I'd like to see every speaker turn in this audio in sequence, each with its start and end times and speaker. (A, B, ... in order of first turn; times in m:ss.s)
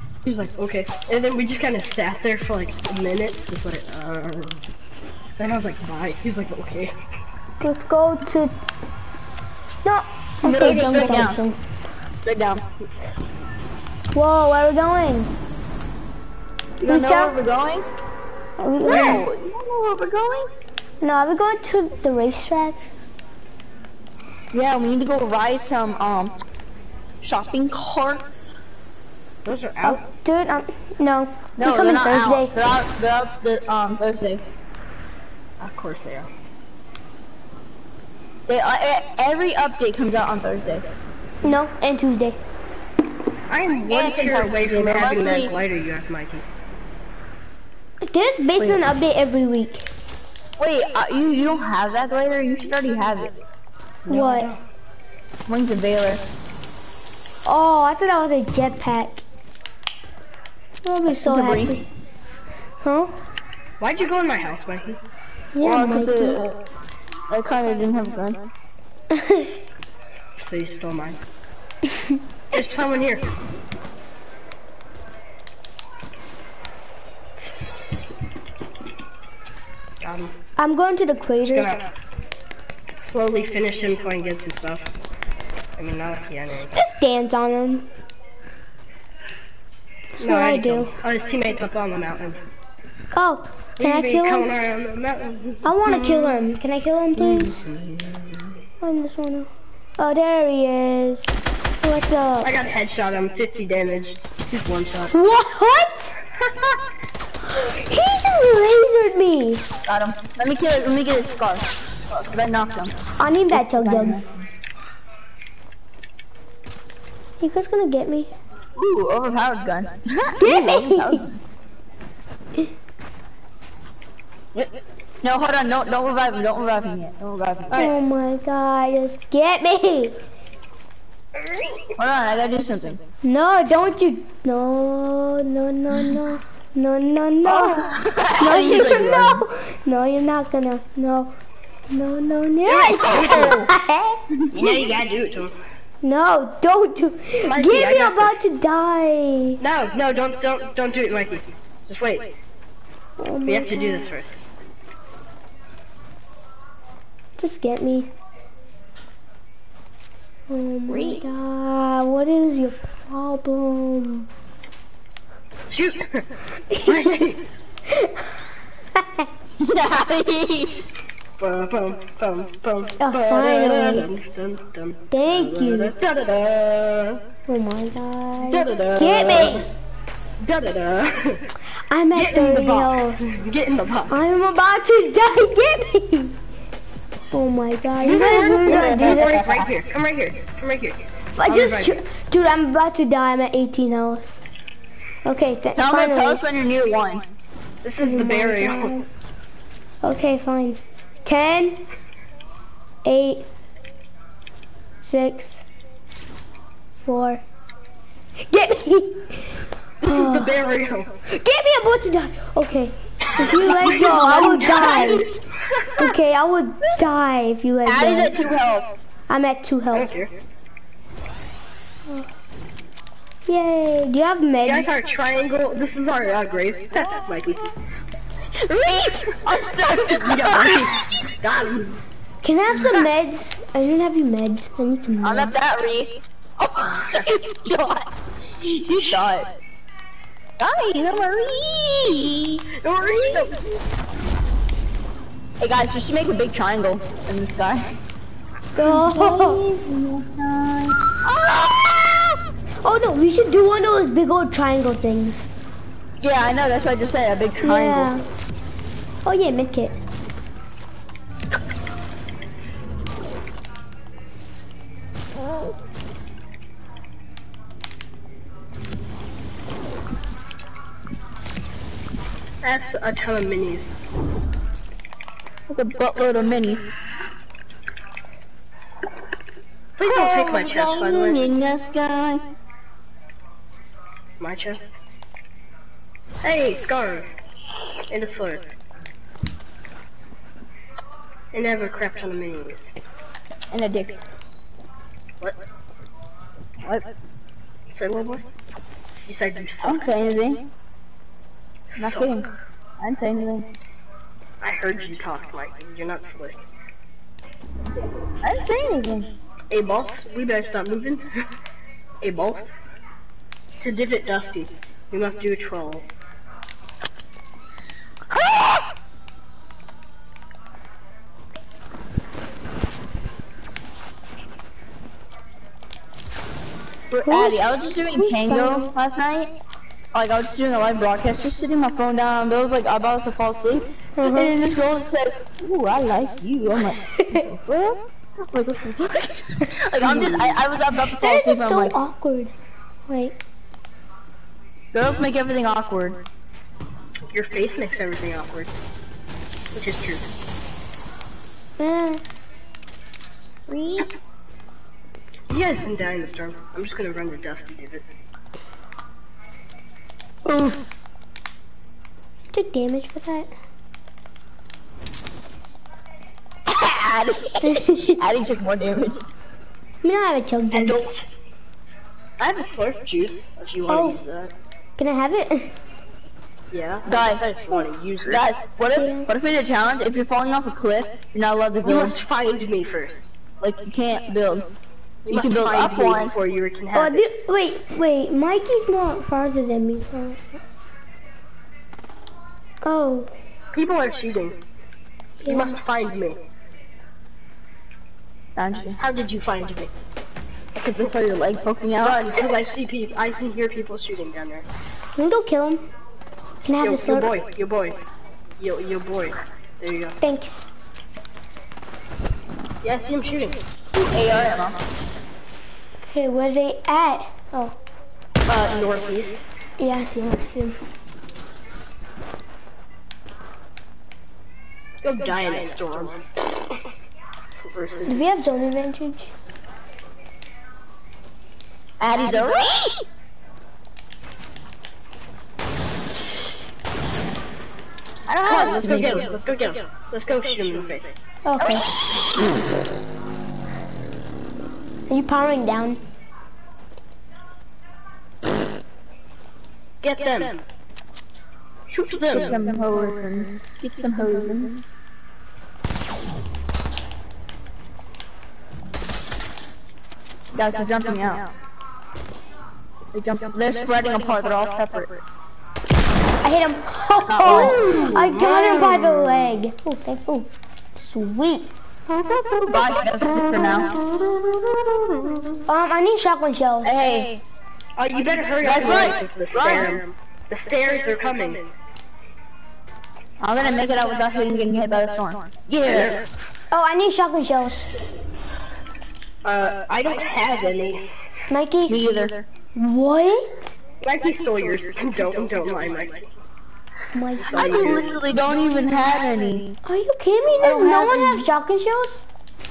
0:00.2-0:04.6 A
0:05.4-0:06.9 A
0:07.6-0:08.5 B
0:09.8-0:11.6 B
0:10.4-0:11.4 C
0:10.5-0:11.2 A
0:12.2-0:12.6 C
0:14.1-0:15.3 B
0:16.8-0:17.8 C
0:16.8-0:17.4 B
0:18.6-0:19.3 B
0:18.8-0:20.5 C
0:21.0-0:22.8 B
0:24.5-0:26.3 C
0:27.2-0:28.6 C
0:29.4-0:30.0 A
0:29.8-0:32.6 B
0:31.6-0:34.4 C
0:35.6-0:36.3 A
0:38.5-0:40.9 C
0:41.4-0:42.4 B
0:43.5-0:46.4 A
0:43.9-0:45.6 C
0:48.0-0:49.9 B
0:50.6-0:53.3 C
0:54.0-0:54.6 A
0:54.1-0:54.5 B
0:55.5-0:56.2 C
0:57.4-0:59.2 B
1:00.8-1:01.8 B
1:01.1-1:01.8 C
1:02.8-1:03.1 B
1:03.8-1:05.0 A
1:05.5-1:06.4 B
1:05.6-1:06.5 C
1:07.3-1:08.5 C
1:09.1-1:09.5 B
1:10.4-1:11.2 A
1:12.5-1:13.3 A
1:20.0-1:20.3 A
1:20.6-1:21.8 B
1:21.5-1:21.9 A
1:23.0-1:24.8 A
1:25.8-1:26.7 A
1:26.7-1:27.9 B
1:30.2-1:30.9 B
1:30.2-1:32.4 A
1:33.1-1:34.5 B
1:33.8-1:36.4 A
1:35.6-1:37.6 B
1:37.2-1:38.4 A
1:38.8-1:41.3 B
1:41.8-1:42.5 B
1:42.4-1:45.1 A
1:45.1-1:46.1 B
1:46.5-1:46.8 A
1:47.5-1:49.7 B
1:49.8-1:52.9 C
1:53.2-1:54.2 B
1:53.5-1:54.4 C
1:57.4-1:58.3 B
1:58.8-2:01.4 C
2:00.4-2:01.2 B
2:04.5-2:07.8 C
2:07.8-2:10.2 B
2:11.4-2:11.9 A
2:12.0-2:13.0 C
2:13.2-2:21.3 B
2:17.4-2:19.4 C
2:21.9-2:24.2 B
2:22.6-2:23.7 C
2:24.3-2:24.7 C
2:24.5-2:25.5 A
2:26.0-2:29.6 B
2:27.4-2:28.4 A
2:29.6-2:32.3 A
2:33.2-2:34.1 B
2:33.4-2:34.4 A
2:37.4-2:38.1 B
2:40.5-2:44.3 B
2:40.9-2:41.2 C
2:45.7-2:46.2 A
2:46.7-2:47.2 B
2:46.8-2:47.4 A
2:47.9-2:48.2 B
2:49.0-2:49.3 B
2:49.6-2:50.8 C
2:51.4-2:57.2 A
2:53.0-2:54.1 B
2:55.1-2:55.9 B
2:57.5-2:59.7 B
2:58.4-2:59.7 A
2:59.3-2:59.6 C
3:00.4-3:01.4 A
3:01.9-3:03.2 B
3:02.1-3:04.3 A
3:04.1-3:06.4 B
3:07.3-3:09.4 B
3:08.0-3:11.9 A
3:08.6-3:09.7 C
3:11.4-3:14.2 B
3:15.2-3:16.4 B
3:15.8-3:17.3 C
3:17.8-3:18.9 A
3:18.0-3:19.0 B
3:20.0-3:21.8 B
3:23.0-3:23.5 B
3:25.0-3:25.6 B
3:27.0-3:27.4 B
3:28.4-3:30.5 B
3:30.0-3:31.1 A
3:31.3-3:35.2 B
3:33.4-3:35.2 A
3:33.4-3:35.3 C
3:36.0-3:38.4 B
3:37.8-3:38.9 C
3:39.3-3:40.1 B
3:39.9-3:40.3 A
3:43.5-3:44.9 B
3:44.6-3:47.7 A
3:48.4-3:51.0 C
3:49.9-3:52.0 A
3:52.4-3:55.5 B
3:55.2-3:58.1 C
3:57.0-3:57.3 A
3:58.6-3:59.2 A
3:59.0-3:59.5 C
4:00.6-4:02.6 C
4:02.8-4:03.5 A
4:03.3-4:03.6 C
4:05.6-4:07.9 C
4:08.8-4:09.6 B
4:08.8-4:12.4 C
4:12.8-4:15.4 B
4:16.2-4:18.2 C
4:17.6-4:18.2 B
4:19.2-4:20.0 B
4:32.6-4:33.9 A
4:35.7-4:36.9 C
4:40.0-4:41.5 A
4:40.0-4:42.4 C
4:44.4-4:45.0 A
4:46.4-4:47.3 A
4:48.1-4:48.7 A
4:51.5-4:52.9 A
4:53.7-4:54.2 C
4:57.9-4:58.4 A
4:59.3-5:00.1 A
4:59.8-5:00.6 C
5:01.9-5:02.4 A
5:02.0-5:03.7 C
5:04.6-5:06.6 A
5:08.4-5:09.3 C
5:09.7-5:11.2 A
5:12.2-5:12.7 A
5:13.8-5:16.1 A
5:18.3-5:18.9 C
5:27.1-5:29.5 C
5:27.3-5:28.9 B
5:30.1-5:42.0 C
5:34.2-5:34.5 B
5:37.1-5:37.5 B
5:40.0-5:40.6 A
5:41.1-5:42.5 B
5:43.1-5:43.4 B
5:44.9-5:46.2 C
5:47.3-5:48.7 A
5:49.7-5:50.2 A
5:51.8-5:52.2 B
5:53.7-5:54.1 C
5:55.5-5:58.0 A
6:00.4-6:00.8 C
6:02.5-6:03.5 B
6:06.6-6:09.3 C
6:07.6-6:08.2 B
6:10.0-6:11.0 B
6:10.7-6:11.3 A
6:12.4-6:14.5 A
6:13.9-6:14.2 B
6:15.0-6:15.7 B
6:16.7-6:18.5 A
6:17.0-6:17.4 C
6:18.2-6:22.2 C
6:18.9-6:19.3 B
6:21.8-6:23.4 A
6:23.6-6:24.7 C
6:25.2-6:27.3 A
6:25.3-6:26.3 C
6:26.9-6:30.4 B
6:32.8-6:33.3 B
6:33.7-6:34.6 A
6:35.4-6:35.8 B
6:35.5-6:36.4 A
6:38.6-6:39.0 C
6:39.0-6:39.9 A
6:40.7-6:42.4 C
6:42.0-6:44.6 A
6:45.2-6:45.8 B
6:46.6-6:47.3 B
6:46.8-6:48.0 A
6:48.6-6:50.2 A
6:50.2-6:50.6 B
6:52.8-6:53.6 A
6:53.9-6:54.8 C
6:56.0-6:57.7 B
6:58.5-6:59.5 A
6:59.8-7:00.8 B
7:05.0-7:06.2 A
7:07.7-7:08.2 A
7:08.1-7:09.3 B
7:12.0-7:13.0 C
7:12.2-7:12.6 A
7:18.3-7:19.4 C
7:18.4-7:21.2 A
7:21.4-7:21.9 B
7:21.6-7:22.7 C
7:25.1-7:26.0 B
7:30.0-7:30.6 A
7:31.9-7:35.0 C
7:32.3-7:32.6 A
7:40.5-7:41.5 C
7:43.1-7:45.1 C
7:43.6-7:45.2 A
7:46.4-7:51.7 B
7:47.2-7:48.0 C
7:47.4-7:49.6 A
7:52.1-7:55.4 A
7:52.6-7:53.9 C
7:53.3-7:53.9 B
7:55.7-7:57.0 B
7:56.8-7:57.4 C
7:58.0-8:01.7 A
7:58.6-8:00.0 C
8:03.4-8:06.2 C
8:05.8-8:06.2 A
8:06.7-8:07.9 B
8:09.4-8:11.0 A
8:11.5-8:12.2 B
8:11.9-8:12.5 C
8:12.8-8:13.5 B
8:14.0-8:16.3 A
8:17.1-8:17.9 B
8:17.4-8:18.1 A
8:17.5-8:19.8 C
8:19.8-8:22.2 B
8:20.6-8:21.4 C